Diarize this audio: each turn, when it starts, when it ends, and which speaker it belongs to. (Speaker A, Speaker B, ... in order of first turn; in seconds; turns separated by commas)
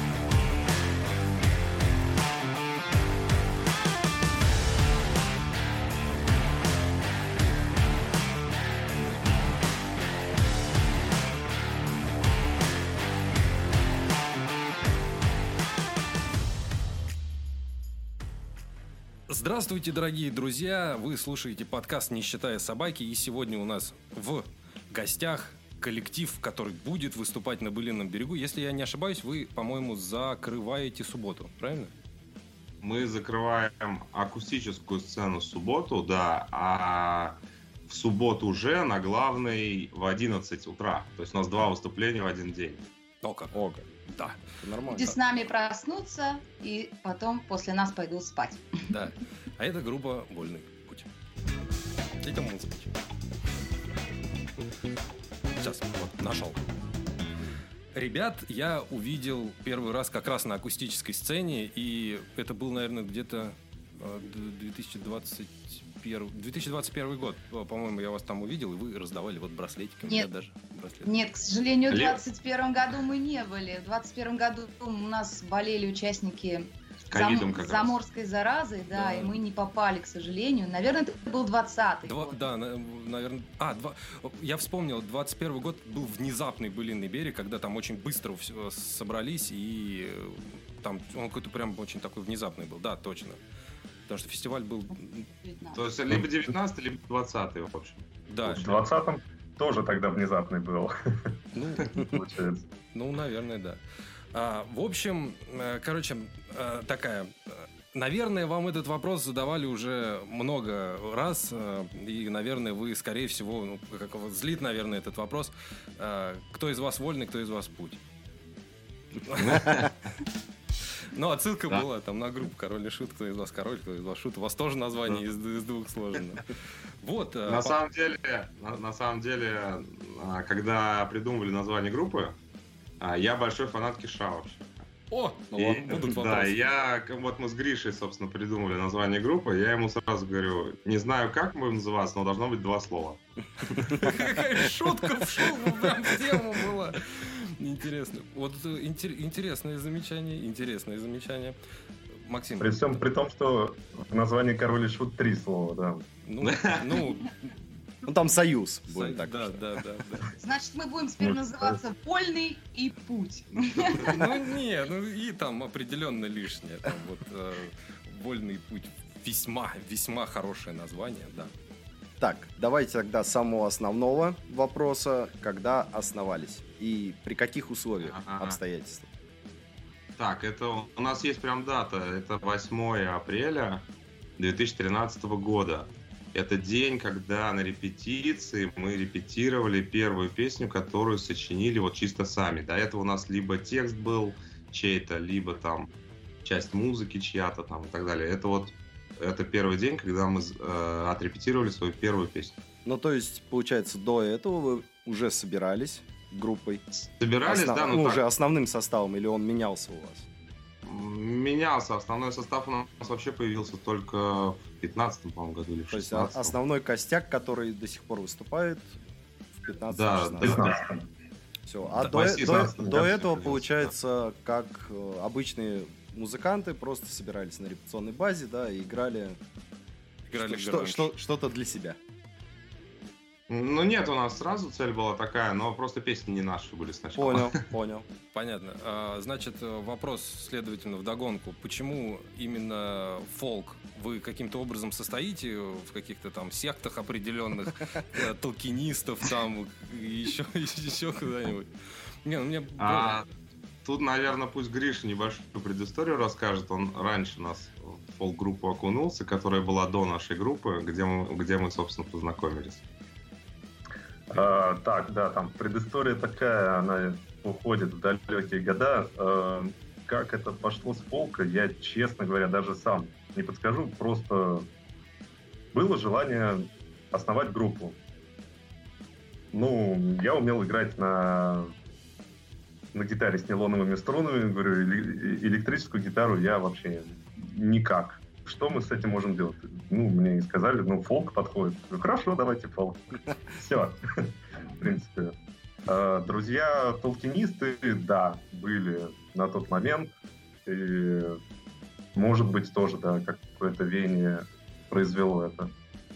Speaker A: 19.3-31.9, Speaker B: 32.8-42.8, Speaker A: 43.2-44.5, Speaker C: 43.5-43.9, Speaker C: 44.5-45.1, Speaker D: 44.9-48.6, Speaker A: 48.9-51.1, Speaker A: 52.2-52.9, Speaker A: 55.6-56.6, Speaker A: 57.9-71.1, Speaker D: 71.0-82.4, Speaker B: 71.9-72.2, Speaker B: 77.1-77.9, Speaker A: 78.9-79.4, Speaker A: 82.0-93.4, Speaker A: 94.1-95.3, Speaker D: 95.4-95.8, Speaker B: 95.7-98.0, Speaker A: 98.3-98.8, Speaker E: 98.4-102.7, Speaker A: 101.5-102.0, Speaker A: 102.9-103.8, Speaker A: 104.3-118.0, Speaker A: 119.2-119.9, Speaker B: 119.4-119.9, Speaker A: 121.1-127.7, Speaker B: 127.5-132.4, Speaker B: 133.0-134.8, Speaker A: 135.1-136.6, Speaker C: 135.5-136.2, Speaker B: 135.6-143.2, Speaker C: 143.7-144.0, Speaker A: 143.9-151.6, Speaker A: 152.2-153.0, Speaker E: 152.6-156.0, Speaker A: 156.2-157.5, Speaker B: 156.4-157.0, Speaker C: 158.0-159.8, Speaker A: 158.9-160.3, Speaker D: 160.4-164.2, Speaker A: 164.0-171.5, Speaker C: 164.0-164.4, Speaker C: 172.2-179.1, Speaker B: 178.0-178.6, Speaker B: 180.2-183.9, Speaker B: 184.4-202.6, Speaker C: 202.8-206.8, Speaker B: 206.9-208.2, Speaker C: 207.4-210.3, Speaker B: 210.8-216.6, Speaker C: 215.9-218.9, Speaker C: 219.6-220.7, Speaker B: 219.9-220.7, Speaker E: 220.4-221.0, Speaker C: 221.7-229.4, Speaker B: 221.9-223.9, Speaker E: 222.4-222.9, Speaker A: 230.3-231.1, Speaker C: 230.3-232.0, Speaker B: 233.5-237.6, Speaker C: 237.2-238.1, Speaker A: 238.3-251.7, Speaker A: 252.2-253.3, Speaker B: 252.8-253.2, Speaker B: 253.8-262.8, Speaker E: 264.3-274.7, Speaker E: 275.7-278.0, Speaker E: 279.5-281.7, Speaker E: 282.9-295.3, Speaker E: 295.9-300.1, Speaker E: 300.6-301.4, Speaker E: 302.1-305.7